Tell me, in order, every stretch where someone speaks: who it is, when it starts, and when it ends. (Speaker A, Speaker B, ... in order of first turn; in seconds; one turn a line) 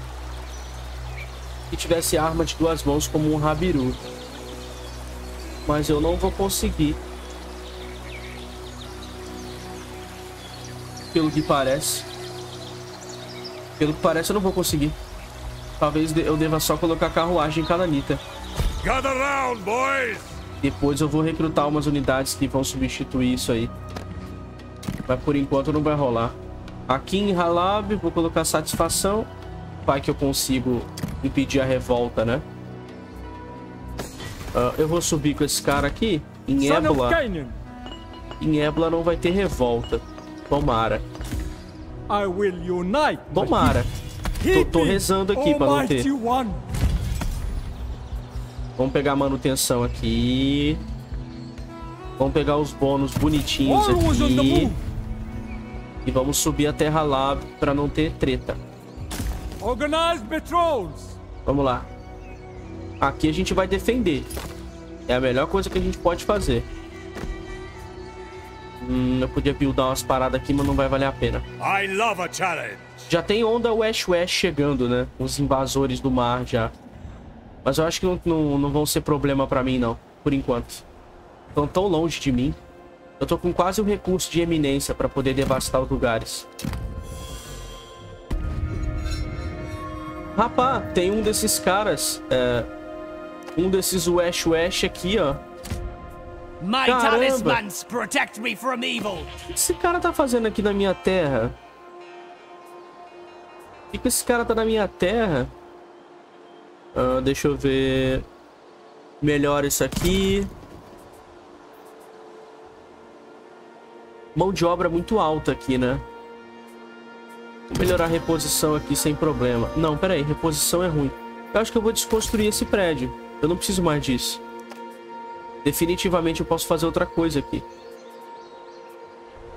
Speaker A: 1.7-4.0
Speaker A: 5.6-7.0
Speaker A: 11.1-12.1
Speaker A: 13.8-15.0
Speaker A: 15.8-18.2
Speaker B: 18.8-20.3
Speaker A: 20.6-23.7
Speaker A: 25.1-26.4
Speaker A: 26.9-29.3
Speaker A: 29.9-32.4
Speaker A: 34.5-37.2
Speaker C: 36.6-37.6
Speaker A: 38.4-41.0
Speaker C: 42.1-43.8
Speaker A: 43.3-43.9
Speaker C: 44.4-46.6
Speaker A: 44.5-46.1
Speaker A: 48.8-50.8
Speaker A: 52.2-54.7
Speaker C: 53.6-54.8
Speaker A: 56.0-58.6
Speaker C: 59.6-61.1
Speaker A: 61.5-61.9
Speaker A: 63.0-64.3
Speaker A: 65.1-66.7
Speaker A: 68.8-71.4
Speaker B: 71.6-73.1
Speaker A: 73.1-76.7
Speaker A: 77.6-80.8
Speaker A: 81.5-82.6
Speaker A: 83.2-86.5
Speaker A: 90.3-92.7
Speaker A: 93.5-95.4
Speaker D: 96.6-99.3
Speaker A: 96.8-97.6
Speaker A: 99.4-101.5
Speaker A: 103.9-105.5
Speaker A: 106.9-108.2
Speaker A: 109.2-110.5
Speaker A: 114.3-116.0
Speaker A: 117.7-124.4
Speaker A: 125.6-127.6